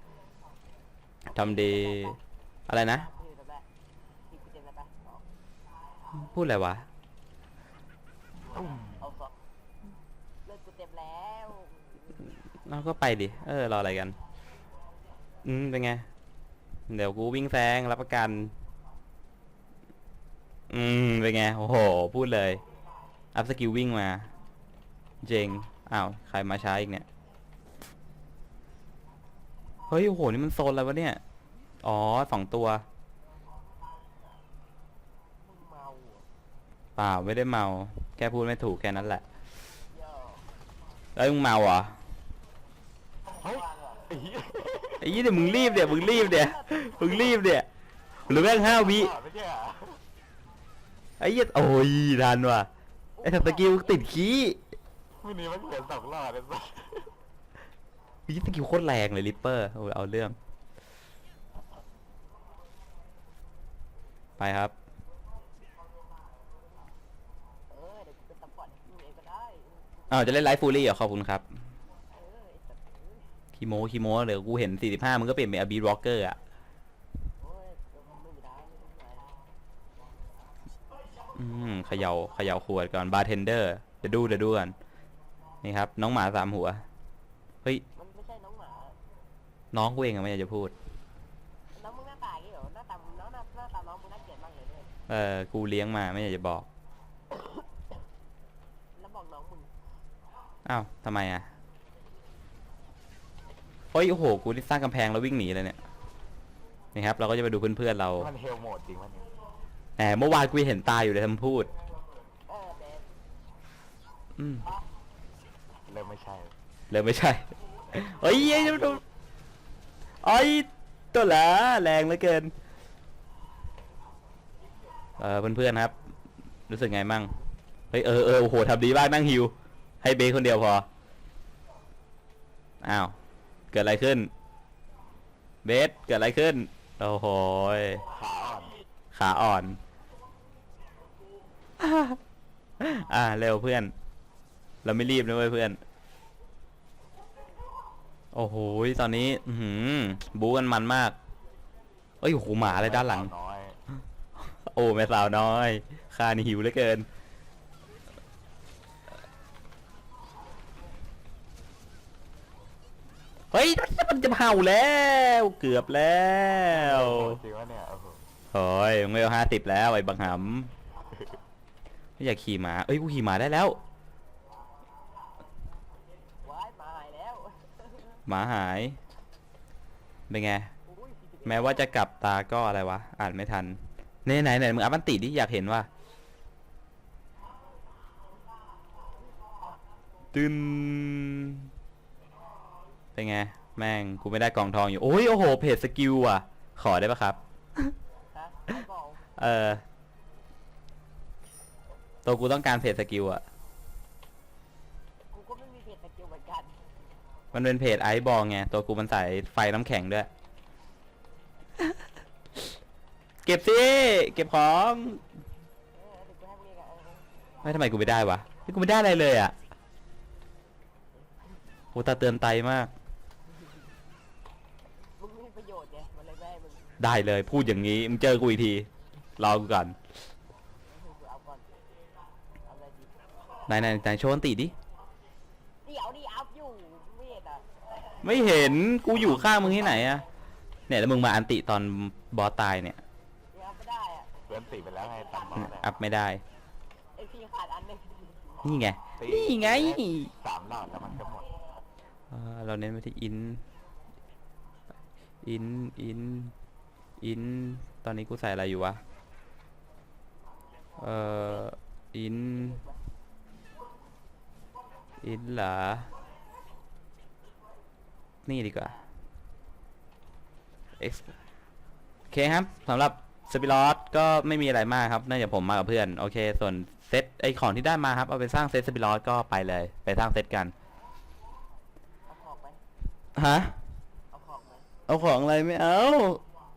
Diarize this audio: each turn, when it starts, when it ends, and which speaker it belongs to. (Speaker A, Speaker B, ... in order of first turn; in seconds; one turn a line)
Speaker A: 1.3-3.1
Speaker B: 1.3-2.2
Speaker B: 2.8-3.6
Speaker B: 4.3-5.2
Speaker A: 6.1-6.9
Speaker C: 8.5-8.8
Speaker B: 10.4-12.2
Speaker A: 12.6-14.2
Speaker A: 15.4-16.1
Speaker A: 16.9-18.5
Speaker A: 20.7-22.6
Speaker A: 23.3-24.3
Speaker A: 25.2-27.0
Speaker A: 29.9-31.2
Speaker A: 31.8-32.8
Speaker B: 35.4-36.2
Speaker A: 37.0-39.2
Speaker B: 39.9-40.5
Speaker A: 41.1-41.9
Speaker C: 43.4-45.1
Speaker B: 43.8-44.0
Speaker A: 45.0-47.7
Speaker B: 45.3-47.3
Speaker A: 48.2-49.1
Speaker C: 48.3-50.0
Speaker A: 51.2-52.7
Speaker B: 53.2-54.0
Speaker A: 53.2-54.6
Speaker C: 55.2-57.1
Speaker A: 58.3-60.4
Speaker A: 64.4-64.7
Speaker B: 67.7-70.8
Speaker A: 70.1-71.5
Speaker B: 72.1-73.2
Speaker A: 73.5-76.4
Speaker B: 77.4-79.3
Speaker A: 81.3-84.7
Speaker A: 85.6-86.8
Speaker B: 87.9-89.0
Speaker A: 89.7-90.7
Speaker B: 91.7-94.9
Speaker A: 95.1-96.7
Speaker B: 98.9-99.7
Speaker A: 100.6-101.5
Speaker A: 103.9-105.8
Speaker A: 106.9-108.3
Speaker C: 108.2-109.3
Speaker A: 110.0-111.7
Speaker B: 112.5-113.1
Speaker A: 114.4-114.7
Speaker C: 115.9-116.5
Speaker A: 116.9-119.0
Speaker C: 118.2-119.0
Speaker A: 120.2-122.5
Speaker A: 125.2-125.9
Speaker A: 126.7-127.3
Speaker A: 127.9-130.9
Speaker A: 132.8-133.1
Speaker A: 133.7-134.3
Speaker A: 135.6-138.0
Speaker C: 138.1-138.8
Speaker A: 139.1-139.8
Speaker A: 141.8-142.2
Speaker A: 142.8-143.9
Speaker A: 144.8-145.8
Speaker A: 148.3-151.2
Speaker A: 152.2-153.3
Speaker C: 152.6-153.8
Speaker A: 154.4-157.1
Speaker A: 163.5-167.4
Speaker C: 166.7-168.2
Speaker A: 168.5-170.7
Speaker A: 172.2-173.8
Speaker B: 176.4-178.2
Speaker A: 178.2-179.0
Speaker A: 180.3-180.7
Speaker B: 180.9-181.9
Speaker A: 181.4-185.9
Speaker A: 190.3-191.7
Speaker A: 193.1-197.9
Speaker B: 198.3-199.2
Speaker A: 199.3-199.8
Speaker A: 202.2-203.4
Speaker B: 205.3-206.8
Speaker A: 207.5-210.3
Speaker A: 213.4-215.2
Speaker B: 215.9-217.3
Speaker A: 217.6-219.5
Speaker A: 221.9-222.9
Speaker B: 225.2-226.9
Speaker A: 227.0-229.9
Speaker B: 230.9-231.7
Speaker B: 232.7-233.2
Speaker A: 233.7-234.7
Speaker B: 235.8-237.7
Speaker A: 238.2-240.2
Speaker C: 239.1-240.2
Speaker A: 240.9-243.0
Speaker B: 243.5-244.3
Speaker C: 244.5-245.9
Speaker B: 244.9-245.7
Speaker A: 245.5-246.4
Speaker B: 247.2-248.7
Speaker A: 248.6-250.3
Speaker C: 249.2-251.5
Speaker A: 252.3-253.6
Speaker A: 255.4-256.5
Speaker A: 257.2-259.0
Speaker A: 261.0-262.8
Speaker B: 262.6-263.0
Speaker A: 265.2-266.1
Speaker A: 268.4-268.9
Speaker A: 271.0-271.3
Speaker A: 272.3-280.7
Speaker B: 282.3-282.8
Speaker A: 283.4-283.8
Speaker B: 284.3-284.9
Speaker A: 285.1-286.4